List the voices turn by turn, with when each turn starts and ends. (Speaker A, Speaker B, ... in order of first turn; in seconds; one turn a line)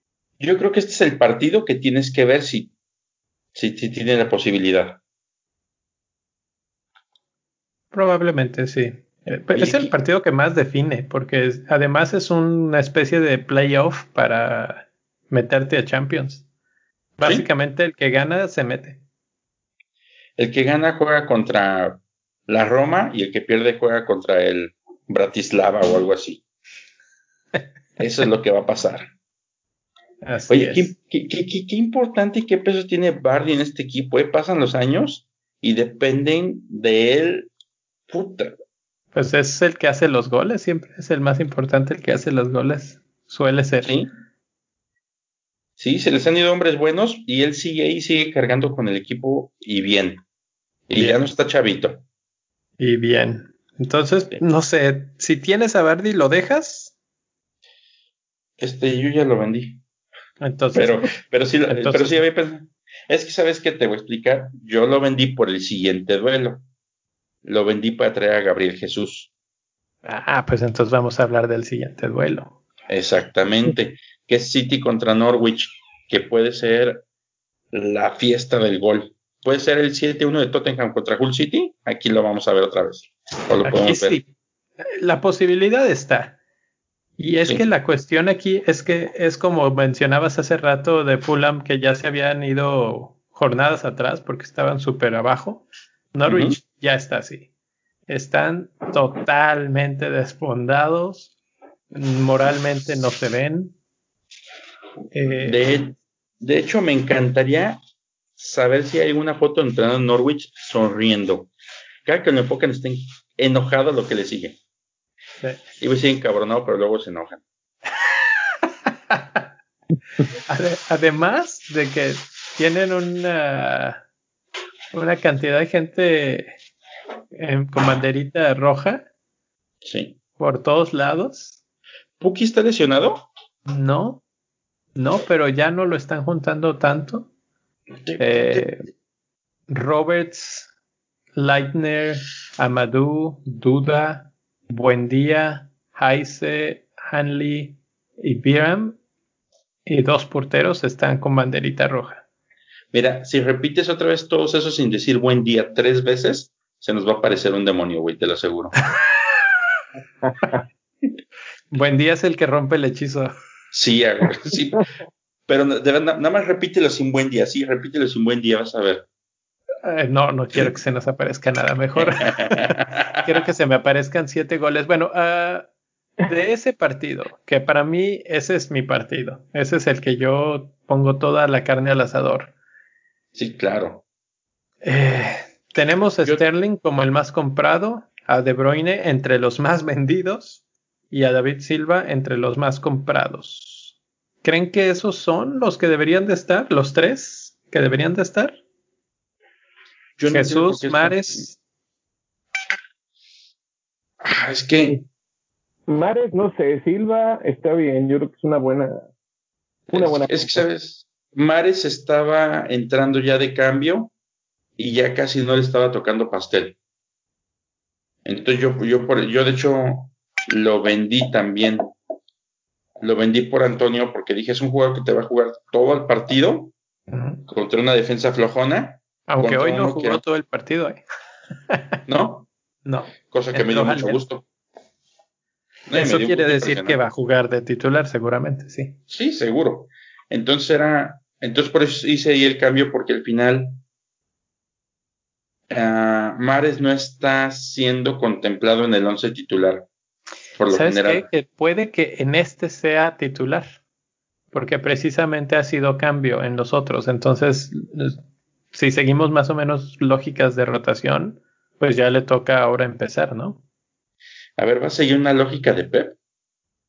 Speaker A: 0.4-2.7
Speaker A: 3.5-5.0
Speaker B: 7.9-16.4
Speaker A: 9.5-9.9
Speaker B: 17.2-19.0
Speaker A: 17.2-17.5
Speaker A: 20.4-26.4
Speaker A: 28.0-29.1
Speaker B: 30.2-30.9
Speaker A: 30.5-37.5
Speaker A: 38.1-38.6
Speaker B: 39.1-43.9
Speaker A: 43.8-44.1
Speaker A: 45.8-50.2
Speaker A: 50.9-52.0
Speaker B: 52.8-56.9
Speaker A: 58.6-59.8
Speaker B: 60.4-61.1
Speaker A: 60.7-66.6
Speaker B: 61.7-62.2
Speaker A: 67.4-69.3
Speaker B: 70.0-72.5
Speaker A: 72.9-77.0
Speaker A: 77.7-84.2
Speaker B: 83.6-84.3
Speaker B: 85.0-86.4
Speaker B: 87.2-97.5
Speaker A: 96.3-96.6
Speaker B: 98.1-101.3
Speaker B: 101.9-103.7
Speaker B: 105.1-105.6
Speaker A: 105.3-107.8
Speaker A: 108.4-111.5
Speaker A: 112.0-114.6
Speaker A: 115.8-117.4
Speaker B: 119.1-119.4
Speaker B: 120.5-124.0
Speaker B: 124.9-126.5
Speaker B: 127.3-129.0
Speaker A: 129.8-130.2
Speaker B: 130.4-131.6
Speaker A: 132.2-133.2
Speaker B: 133.7-134.2
Speaker B: 134.9-137.3
Speaker A: 138.0-138.7
Speaker B: 138.2-138.8
Speaker B: 139.7-140.7
Speaker B: 141.3-149.0
Speaker B: 149.8-152.2
Speaker A: 152.9-158.8
Speaker C: 160.2-160.6
Speaker B: 161.7-163.3
Speaker A: 163.7-164.9
Speaker A: 165.5-169.1
Speaker B: 169.8-175.7
Speaker A: 172.0-173.3
Speaker B: 176.2-182.5
Speaker A: 183.3-184.0
Speaker B: 184.8-198.6
Speaker A: 200.2-201.4
Speaker B: 200.3-201.6
Speaker A: 204.2-205.0
Speaker C: 205.9-209.1
Speaker C: 209.9-210.7
Speaker A: 209.9-214.1
Speaker A: 214.8-216.8
Speaker A: 218.2-221.9
Speaker A: 223.0-226.7
Speaker B: 227.1-227.4
Speaker A: 227.5-230.2
Speaker B: 229.3-231.0
Speaker A: 232.1-232.5
Speaker B: 232.8-234.2
Speaker A: 233.3-234.4
Speaker A: 235.9-237.0
Speaker B: 235.9-238.9
Speaker A: 239.1-243.8
Speaker A: 245.7-249.9
Speaker A: 250.6-251.3
Speaker B: 250.7-253.8
Speaker B: 254.5-258.2
Speaker B: 258.7-263.6
Speaker A: 264.6-266.1